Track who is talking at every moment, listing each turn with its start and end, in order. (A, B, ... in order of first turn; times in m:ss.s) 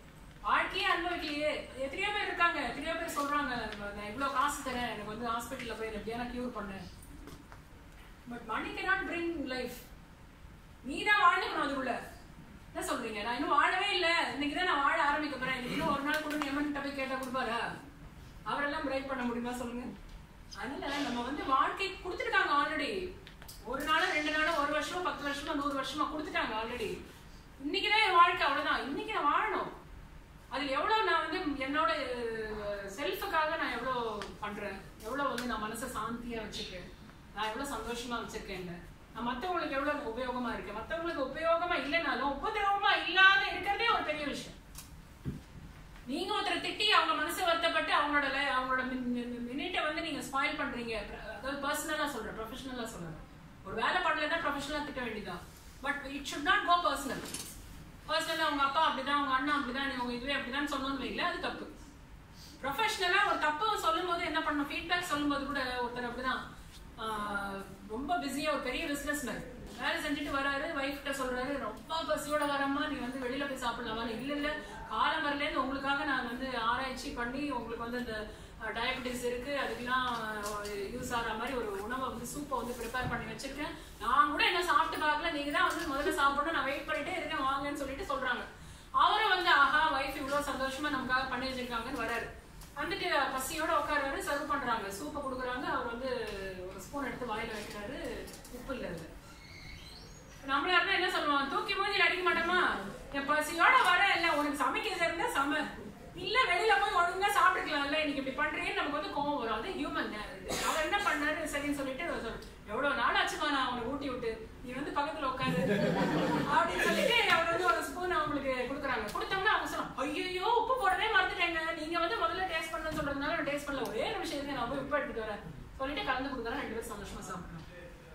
0:00.4-0:06.8 A
0:08.3-0:09.8 A
0:10.8-0:12.0 A
0:12.7-0:17.6 A
0:18.5-0:19.9 A
0:20.6-0:23.0 A
0:23.6-0:27.0 A
0:27.6-0:29.7 A
0:30.5-0:44.6 A
0:46.1-0:57.3 A
0:58.1-1:01.7 A
1:02.6-1:06.4 A
1:07.0-1:28.5 A
1:29.0-1:39.1 A
1:40.4-2:07.7 A